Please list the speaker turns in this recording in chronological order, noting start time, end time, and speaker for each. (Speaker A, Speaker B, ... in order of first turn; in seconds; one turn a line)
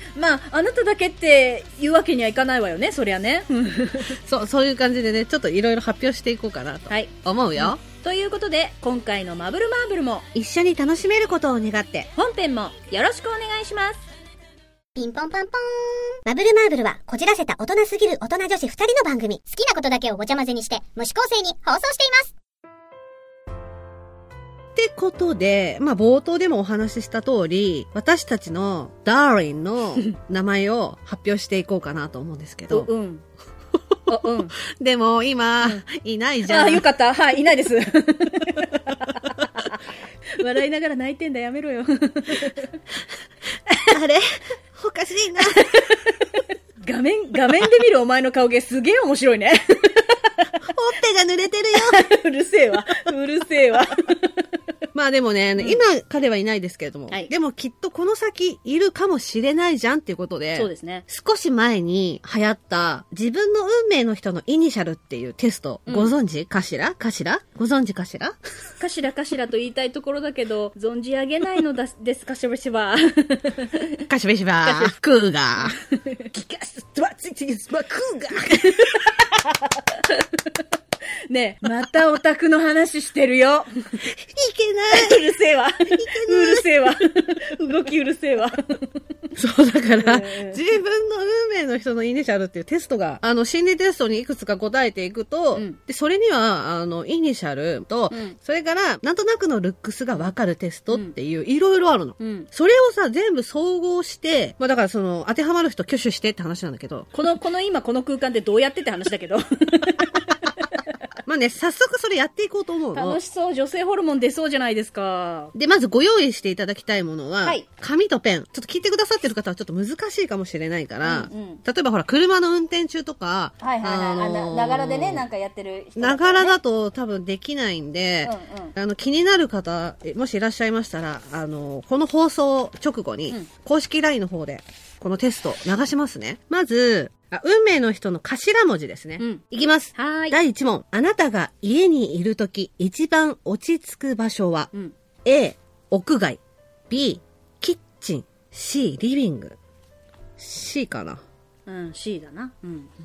Speaker A: 0.1-4.2
Speaker B: 4.2-7.8
Speaker A: 6.9-10.3
Speaker B: 10.3-12.1
Speaker A: 12.2-14.0
Speaker C: 15.0-22.4
Speaker B: 24.8-32.9
Speaker A: 32.7-33.2
Speaker A: 34.1-34.6
Speaker B: 34.6-36.8
Speaker A: 36.5-39.8
Speaker A: 40.4-42.8
Speaker B: 43.8-45.8
Speaker A: 45.5-46.1
Speaker A: 46.8-50.5
Speaker B: 50.7-52.0
Speaker A: 51.7-54.4
Speaker B: 54.9-68.4
Speaker A: 60.5-61.1
Speaker A: 68.8-73.9
Speaker B: 74.1-75.8
Speaker A: 74.6-75.0
Speaker A: 75.6-80.6
Speaker A: 81.3-84.0
Speaker B: 84.0-85.2
Speaker A: 84.9-88.9
Speaker B: 85.9-86.9
Speaker B: 89.4-107.1
Speaker A: 90.0-90.7
Speaker A: 98.1-98.4
Speaker A: 102.2-102.5
Speaker A: 107.1-110.9
Speaker B: 111.3-113.2
Speaker A: 112.9-115.5
Speaker B: 115.5-125.3
Speaker A: 121.0-121.6
Speaker A: 123.6-126.6
Speaker B: 126.0-144.7
Speaker A: 128.2-128.7
Speaker A: 139.2-139.4
Speaker A: 139.9-140.4
Speaker B: 145.2-149.6
Speaker B: 150.4-151.2
Speaker A: 151.7-152.9